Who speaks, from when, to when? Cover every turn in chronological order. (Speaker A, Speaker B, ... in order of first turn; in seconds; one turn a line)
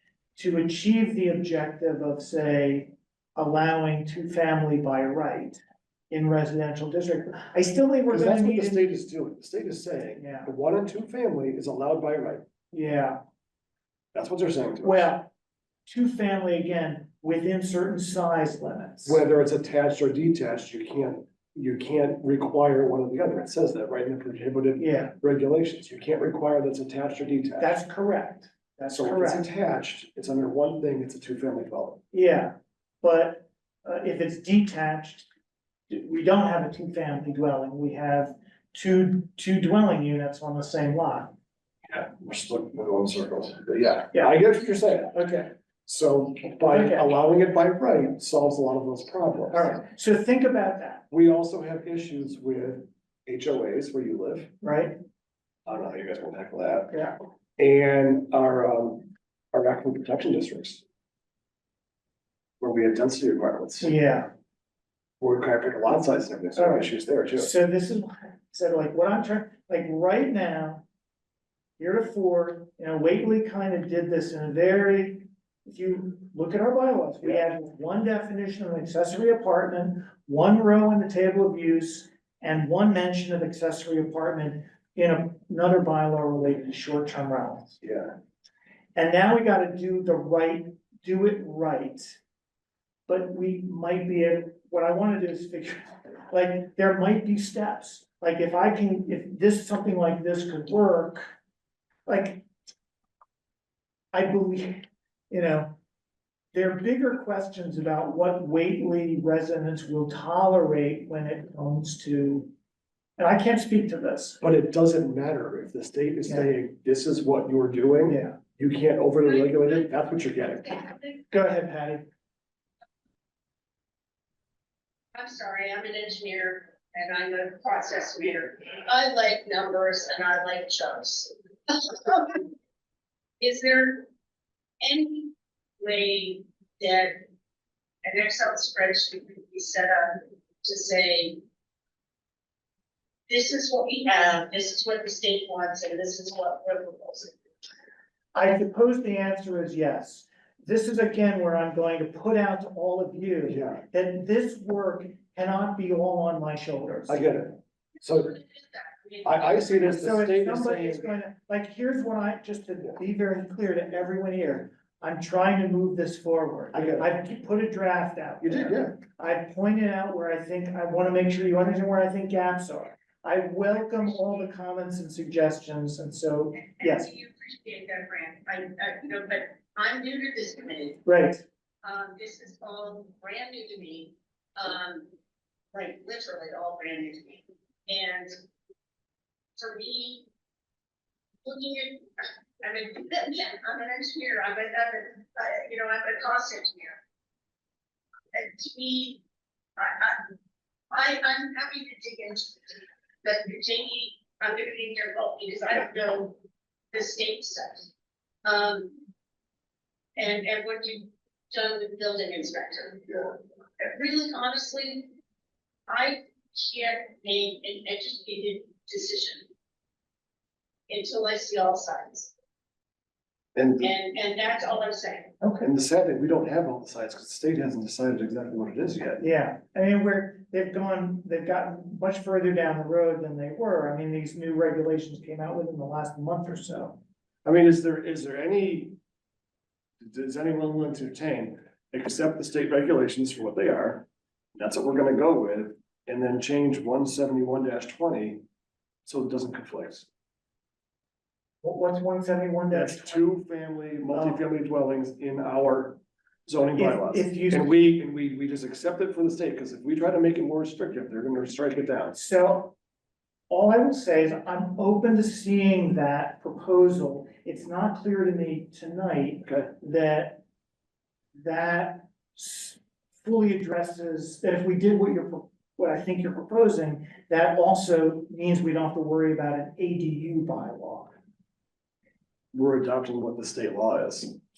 Speaker A: 0.4-5.6
Speaker A: 6.1-8.9
Speaker B: 8.1-12.4
Speaker A: 10.2-10.5
Speaker A: 12.7-13.2
Speaker B: 14.1-15.1
Speaker A: 14.8-15.3
Speaker A: 15.9-19.2
Speaker B: 19.1-27.8
Speaker A: 24.8-25.1
Speaker A: 27.6-29.5
Speaker B: 28.9-32.0
Speaker A: 32.1-35.3
Speaker A: 35.9-41.3
Speaker B: 41.9-45.2
Speaker A: 45.1-45.5
Speaker B: 45.9-49.8
Speaker A: 46.6-47.1
Speaker A: 49.5-51.0
Speaker B: 51.1-54.5
Speaker A: 54.6-55.0
Speaker B: 55.7-56.9
Speaker B: 57.6-60.8
Speaker B: 62.6-63.9
Speaker A: 63.8-64.3
Speaker B: 65.2-67.5
Speaker A: 66.6-70.8
Speaker A: 71.8-87.8
Speaker B: 87.8-88.1
Speaker A: 89.0-92.2
Speaker A: 93.1-101.3
Speaker A: 102.1-102.5
Speaker A: 104.1-105.7
Speaker A: 106.5-112.5
Speaker A: 113.2-114.4
Speaker B: 114.4-120.8
Speaker A: 116.3-116.5
Speaker A: 118.0-118.4
Speaker C: 120.7-121.2
Speaker A: 121.3-122.1
Speaker C: 125.1-132.5
Speaker C: 133.4-134.1
Speaker C: 134.8-137.2
Speaker C: 138.0-141.4
Speaker C: 143.3-147.4
Speaker A: 148.3-157.2
Speaker B: 153.5-153.8
Speaker B: 157.1-158.3
Speaker C: 158.1-159.8
Speaker B: 159.2-161.1
Speaker A: 159.8-177.1
Speaker B: 166.7-167.1
Speaker B: 168.4-169.0
Speaker C: 176.8-181.0
Speaker A: 181.1-181.4
Speaker C: 181.8-185.1
Speaker C: 185.7-188.3
Speaker C: 189.6-190.2
Speaker C: 191.4-197.0
Speaker C: 198.3-199.2
Speaker C: 199.8-200.2
Speaker C: 200.9-206.4
Speaker C: 206.9-207.9
Speaker C: 208.4-208.9
Speaker C: 210.2-215.1
Speaker C: 215.9-219.5
Speaker C: 220.9-222.3
Speaker B: 223.6-223.9
Speaker C: 223.8-225.3
Speaker A: 225.4-225.7
Speaker B: 225.6-229.2
Speaker A: 229.2-237.0
Speaker B: 237.4-239.0
Speaker B: 240.0-248.4
Speaker B: 249.1-250.1
Speaker A: 251.6-253.3
Speaker B: 252.7-262.2
Speaker A: 254.1-254.4
Speaker A: 256.8-257.7
Speaker A: 262.1-262.8
Speaker A: 263.5-270.4
Speaker B: 269.5-269.7
Speaker A: 271.3-281.1
Speaker B: 282.5-284.3